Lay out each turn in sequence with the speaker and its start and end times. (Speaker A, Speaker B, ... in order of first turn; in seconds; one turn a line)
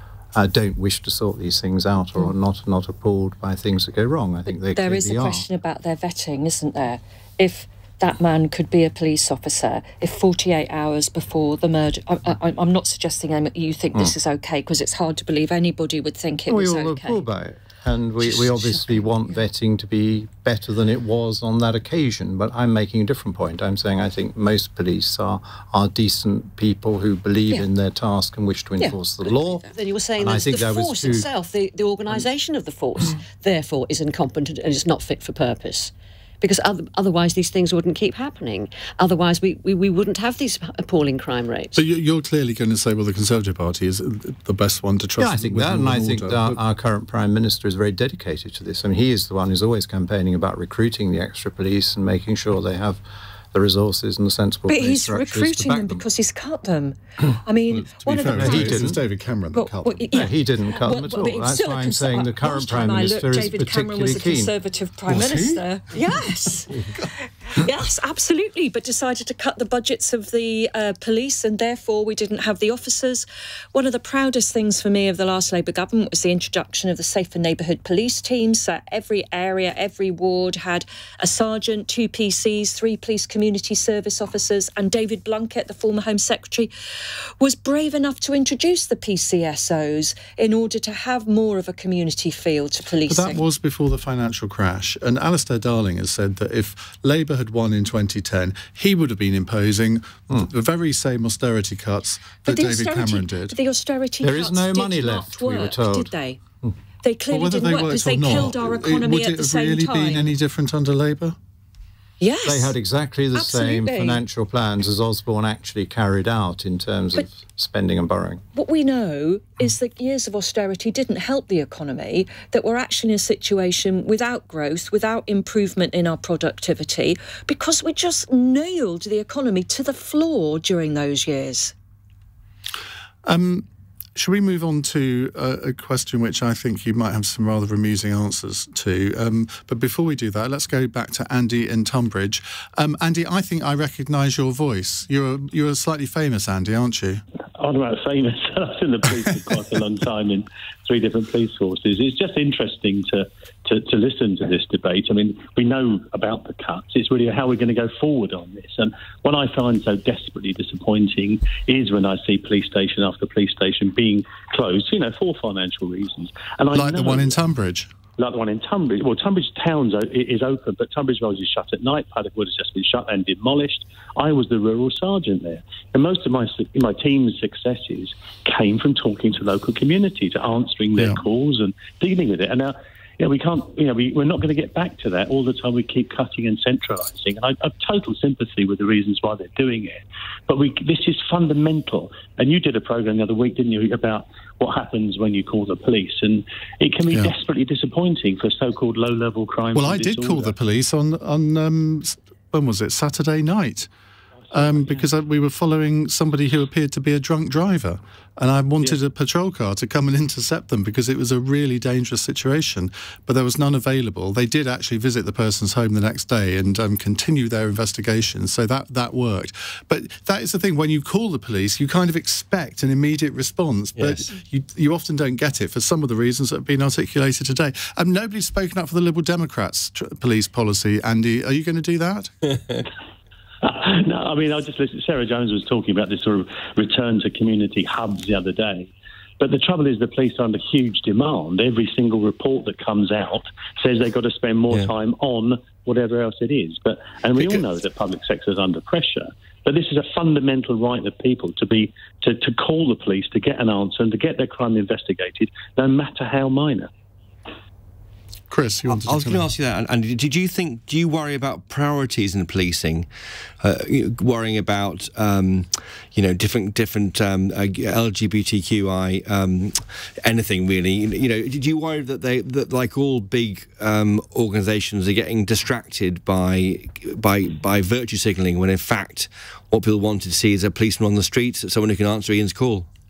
Speaker A: 0.3-5.5
Speaker B: 4.6-17.2
Speaker A: 16.5-29.6
Speaker C: 29.6-41.7
Speaker A: 30.2-31.3
Speaker D: 41.7-46.6
Speaker A: 45.2-53.0
Speaker A: 53.5-56.0
Speaker B: 54.7-58.9
Speaker D: 57.7-60.1
Speaker A: 58.3-59.0
Speaker B: 59.5-66.8
Speaker A: 60.1-64.5
Speaker D: 65.1-65.6
Speaker B: 67.5-86.7
Speaker B: 87.4-93.4
Speaker D: 93.1-103.5
Speaker B: 102.4-106.4
Speaker A: 104.2-106.1
Speaker B: 107.0-110.3
Speaker D: 107.3-111.3
Speaker B: 112.2-112.8
Speaker A: 112.4-118.4
Speaker B: 113.3-114.2
Speaker B: 118.5-131.7
Speaker D: 133.2-147.2
Speaker E: 147.6-167.4
Speaker D: 166.7-167.9
Speaker E: 168.2-200.6
Speaker D: 199.7-203.9
Speaker E: 204.5-205.0
Speaker D: 204.5-232.3
Speaker F: 224.0-224.3
Speaker F: 232.5-232.8
Speaker E: 233.6-256.9
Speaker D: 258.5-259.5
Speaker F: 258.9-263.1
Speaker F: 263.6-282.9